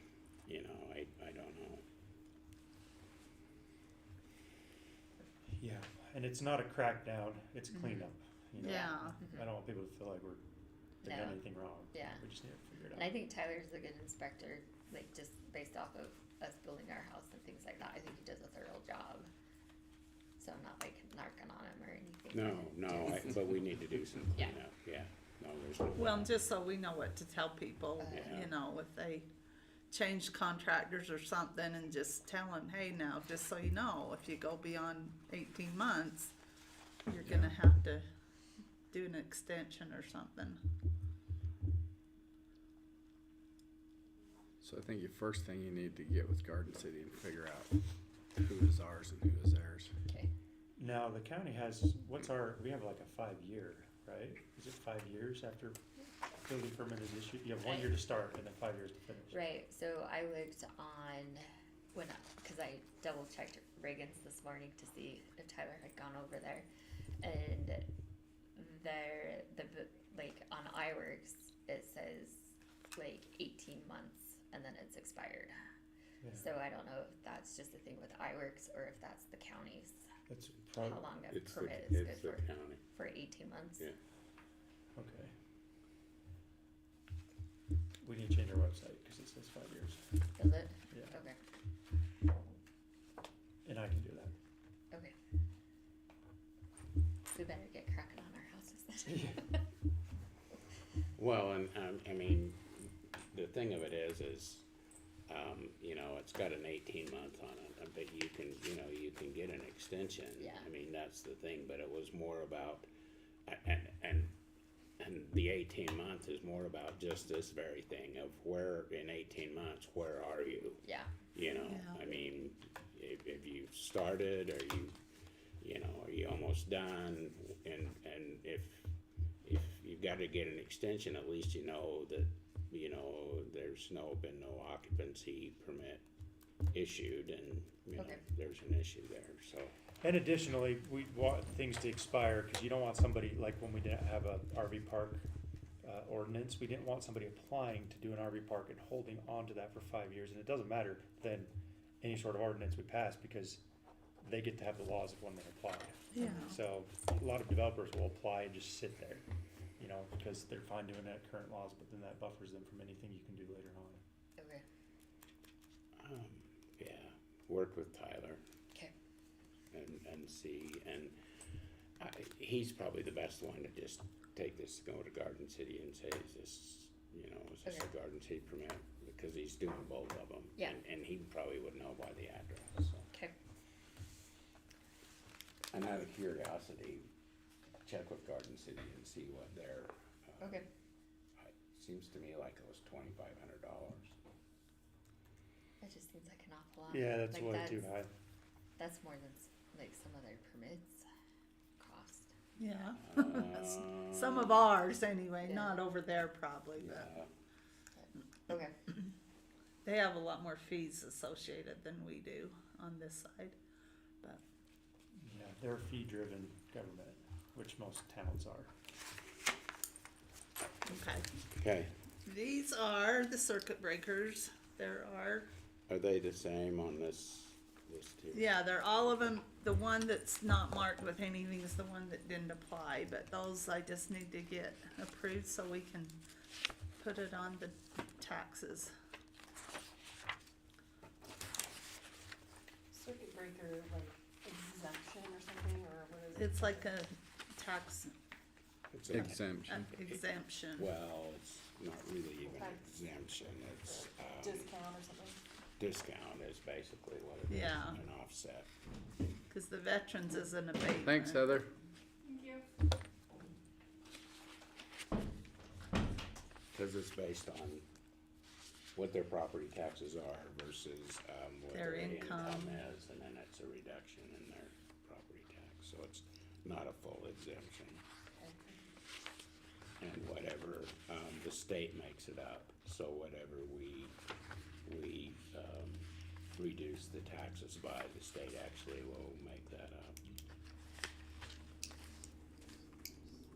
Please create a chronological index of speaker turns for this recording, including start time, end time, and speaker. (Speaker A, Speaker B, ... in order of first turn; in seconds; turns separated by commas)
Speaker A: 0.5-1.9, Speaker B: 5.5-10.4, Speaker C: 7.7-8.1, Speaker D: 8.6-9.2, Speaker C: 9.2-9.5, Speaker B: 11.0-13.1, Speaker C: 11.0-11.4, Speaker C: 11.9-12.2, Speaker C: 12.9-19.3, Speaker C: 20.4-23.6, Speaker A: 22.3-26.4, Speaker D: 25.9-29.3, Speaker C: 28.0-28.4, Speaker A: 28.1-28.5, Speaker D: 29.9-36.4, Speaker D: 37.1-38.1, Speaker E: 37.2-37.5, Speaker D: 38.9-40.6, Speaker E: 44.6-47.8, Speaker E: 48.4-49.9, Speaker B: 50.8-55.8, Speaker B: 56.4-59.4, Speaker C: 57.6-58.0, Speaker C: 59.3-66.7, Speaker C: 67.2-67.9, Speaker C: 68.6-75.5, Speaker B: 76.2-76.5, Speaker C: 76.3-80.0, Speaker B: 80.3-81.1, Speaker C: 80.8-83.9, Speaker A: 81.3-82.8, Speaker B: 85.0-85.3, Speaker B: 88.0-90.2, Speaker C: 90.4-91.4, Speaker B: 90.9-91.2, Speaker B: 93.7-94.4, Speaker C: 97.3-99.6, Speaker A: 101.2-104.7, Speaker A: 105.3-112.9, Speaker C: 110.4-110.7, Speaker A: 113.5-114.3, Speaker A: 115.0-125.0, Speaker C: 120.8-121.2, Speaker D: 121.5-122.0, Speaker A: 125.6-136.0, Speaker A: 136.7-139.8, Speaker B: 140.0-145.3, Speaker B: 145.8-153.6, Speaker B: 154.2-159.2, Speaker D: 156.1-156.6, Speaker B: 159.8-164.0, Speaker C: 164.4-164.7, Speaker A: 166.0-168.4, Speaker A: 169.7-171.2, Speaker A: 172.0-183.1, Speaker A: 185.7-187.1, Speaker A: 187.8-190.7, Speaker C: 190.4-190.7, Speaker A: 191.4-194.2, Speaker C: 195.8-197.9, Speaker B: 196.9-198.1, Speaker C: 198.8-201.1, Speaker C: 201.8-202.3, Speaker D: 202.6-207.1, Speaker A: 203.0-204.7, Speaker C: 205.5-205.8, Speaker A: 206.8-207.3, Speaker C: 207.9-208.7, Speaker D: 209.8-213.6, Speaker B: 215.2-218.7, Speaker D: 220.8-221.3, Speaker A: 221.5-221.9, Speaker D: 222.3-225.5, Speaker A: 225.9-229.3, Speaker D: 228.3-236.2, Speaker D: 237.0-238.9, Speaker F: 242.9-247.1, Speaker D: 246.3-248.2, Speaker A: 248.9-249.4, Speaker E: 249.1-249.9, Speaker D: 249.1-250.9, Speaker A: 250.0-250.2, Speaker A: 250.7-254.7, Speaker F: 252.5-252.8, Speaker F: 254.4-255.4, Speaker A: 255.8-258.7, Speaker D: 257.5-258.0, Speaker D: 259.5-261.6, Speaker E: 261.0-261.7, Speaker A: 266.7-267.9, Speaker A: 268.9-278.0, Speaker D: 271.7-272.8, Speaker A: 280.0-284.2, Speaker A: 284.9-290.2